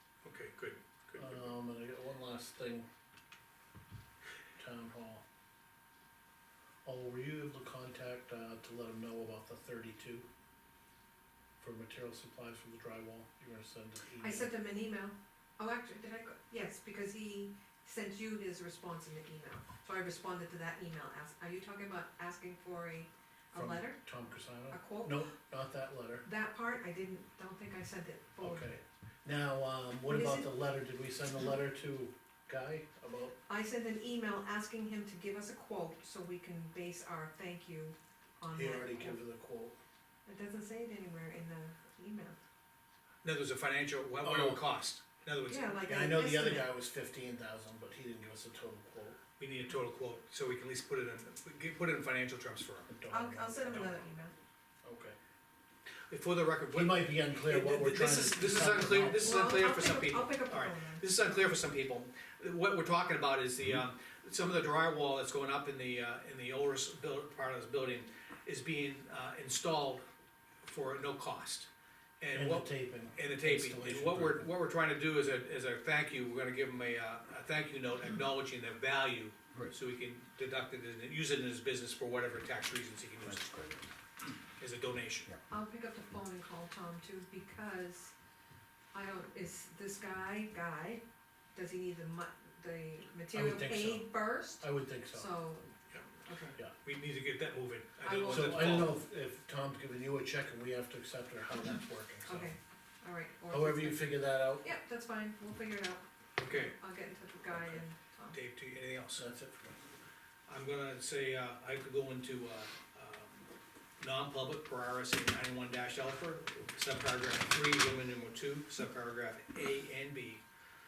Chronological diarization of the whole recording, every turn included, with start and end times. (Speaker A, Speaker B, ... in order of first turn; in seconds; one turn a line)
Speaker A: 0.2-1.4
Speaker B: 1.2-2.9
Speaker B: 4.6-5.2
Speaker B: 6.8-10.3
Speaker B: 11.6-14.5
Speaker C: 14.2-24.0
Speaker B: 23.5-26.2
Speaker C: 24.7-25.3
Speaker C: 26.2-28.7
Speaker B: 28.4-33.4
Speaker C: 30.1-30.5
Speaker C: 33.5-39.2
Speaker B: 38.5-39.8
Speaker C: 40.3-42.4
Speaker A: 43.2-45.9
Speaker B: 44.2-44.6
Speaker C: 45.5-46.8
Speaker B: 45.9-49.2
Speaker A: 49.4-52.9
Speaker B: 52.9-54.1
Speaker C: 53.1-54.3
Speaker B: 54.8-55.2
Speaker A: 56.1-70.0
Speaker B: 56.7-59.5
Speaker C: 59.1-61.0
Speaker A: 70.7-71.7
Speaker A: 72.2-83.8
Speaker B: 72.3-74.5
Speaker A: 84.6-85.3
Speaker C: 85.5-88.1
Speaker C: 88.9-91.0
Speaker C: 91.5-95.7
Speaker B: 93.3-95.3
Speaker A: 95.9-99.0
Speaker C: 98.0-98.8
Speaker B: 98.3-102.5
Speaker C: 102.3-108.4
Speaker B: 103.5-104.7
Speaker A: 106.4-106.8
Speaker B: 107.5-107.9
Speaker A: 108.3-109.2
Speaker B: 109.1-109.8
Speaker A: 110.5-113.5
Speaker A: 114.0-120.4